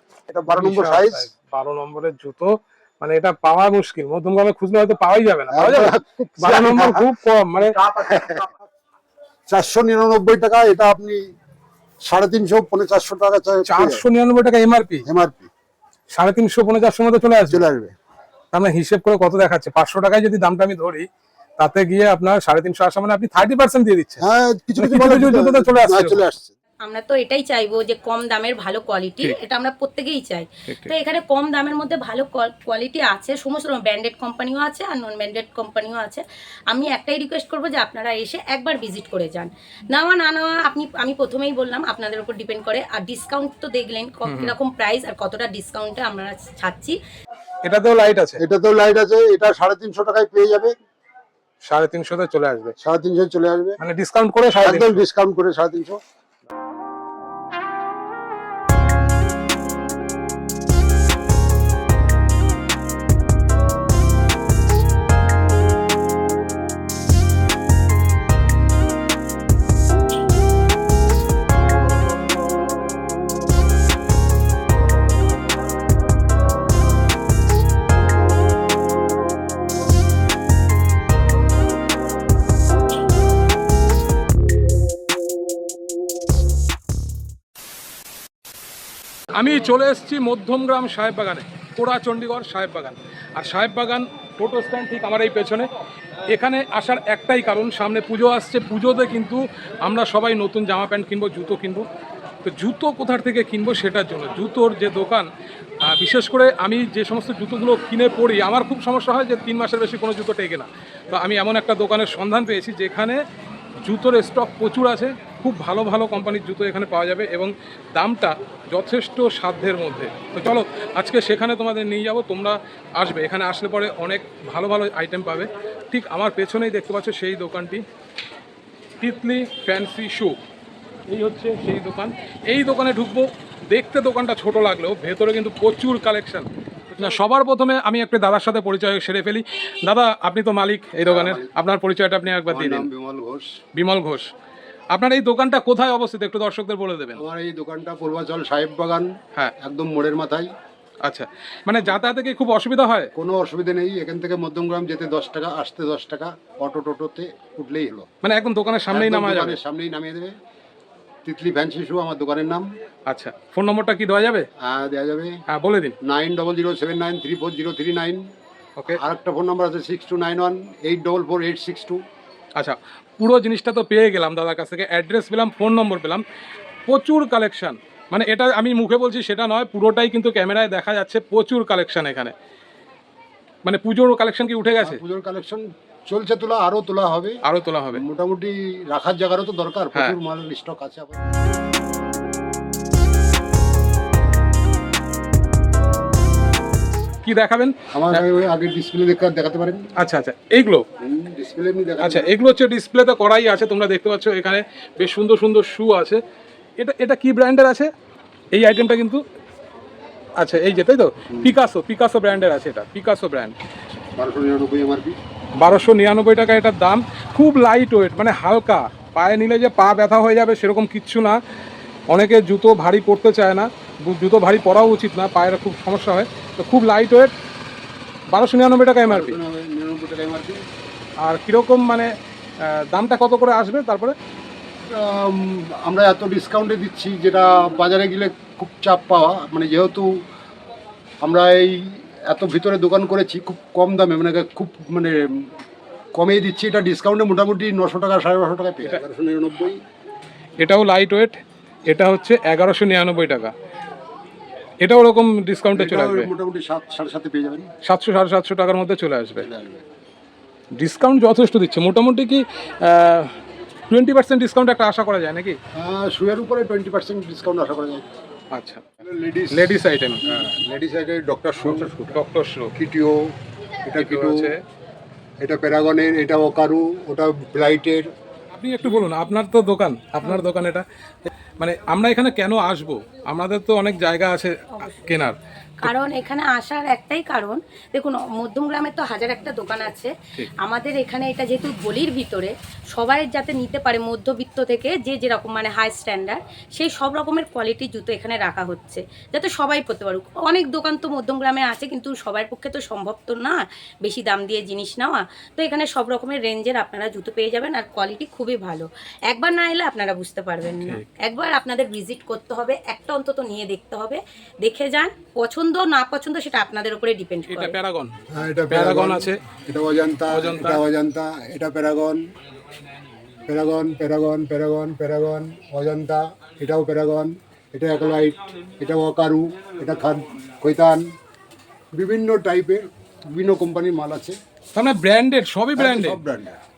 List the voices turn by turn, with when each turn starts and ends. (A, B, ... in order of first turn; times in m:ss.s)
0:00.3-0:01.3 A
0:00.5-0:02.5 B
0:03.0-0:07.8 B
0:05.5-0:07.1 A
0:07.7-0:08.5 A
0:09.5-0:11.2 A
0:12.1-0:14.0 A
0:13.7-0:15.0 B
0:15.1-0:15.5 A
0:16.1-0:17.6 B
0:17.5-0:17.9 A
0:18.5-0:21.1 B
0:21.6-0:24.2 B
0:24.2-0:26.5 A
0:24.8-0:26.3 B
0:26.8-0:47.0 C
0:44.3-0:44.5 B
0:47.6-0:48.4 B
0:48.4-0:50.7 A
0:51.6-0:52.8 B
0:52.8-0:53.8 A
0:53.8-0:55.0 B
0:54.6-0:56.0 A
1:29.3-1:35.7 B
1:36.3-1:41.9 B
1:42.4-1:45.3 B
1:45.8-1:53.2 B
1:53.8-2:07.8 B
2:09.0-2:10.4 B
2:11.1-2:22.9 B
2:21.1-2:21.5 A
2:22.5-2:23.5 A
2:23.8-2:24.3 B
2:24.9-2:27.2 B
2:27.2-2:30.5 A
2:31.0-2:33.1 B
2:33.2-2:38.1 A
2:38.2-2:39.6 B
2:38.9-2:40.3 A
2:41.2-2:42.7 A
2:43.1-2:44.5 B
2:44.6-2:45.4 A
2:45.5-2:46.0 B
2:46.0-2:48.3 A
2:48.9-2:52.0 A
2:52.6-2:56.2 B
2:56.9-3:02.3 B
3:03.6-3:05.0 B
3:04.8-3:07.4 A
3:07.4-3:08.0 B
3:07.9-3:11.3 A
3:17.2-3:18.2 B
3:17.9-3:19.8 A
3:20.0-3:20.8 B
3:21.0-3:22.3 A
3:22.0-3:26.2 B
3:26.8-3:27.9 B
3:28.5-3:29.2 B
3:30.4-3:33.6 B
3:34.2-3:35.2 A
3:35.6-3:41.4 B
3:42.1-3:47.3 B
3:48.3-3:49.4 B
3:49.1-3:50.6 A
3:51.2-3:52.1 B
3:52.6-3:54.2 B
3:54.9-4:00.1 A
4:01.2-4:05.2 A
4:06.2-4:09.8 A
4:10.6-4:13.5 B
4:14.8-4:16.3 B
4:15.8-4:17.7 A
4:17.8-4:19.5 B
4:19.4-4:19.8 A
4:20.8-4:23.3 B
4:23.9-4:25.6 B
4:25.8-4:28.0 A
4:28.5-4:28.9 B
4:29.0-4:29.7 A
4:29.5-4:30.5 B
4:30.3-4:32.2 A
4:31.6-4:32.7 B
4:32.8-4:33.2 A
4:33.8-4:34.5 A
4:34.0-4:34.6 B
4:35.4-4:38.1 A
4:38.5-4:40.8 B
4:41.6-4:45.9 B
4:44.8-4:45.2 C
4:45.8-5:17.8 C
5:17.5-5:18.1 B
5:18.3-5:22.2 A
5:18.7-5:19.4 B
5:20.3-5:20.8 B
5:23.5-5:31.1 A
5:32.0-5:34.4 A
5:34.7-5:36.2 B
5:35.8-5:36.6 A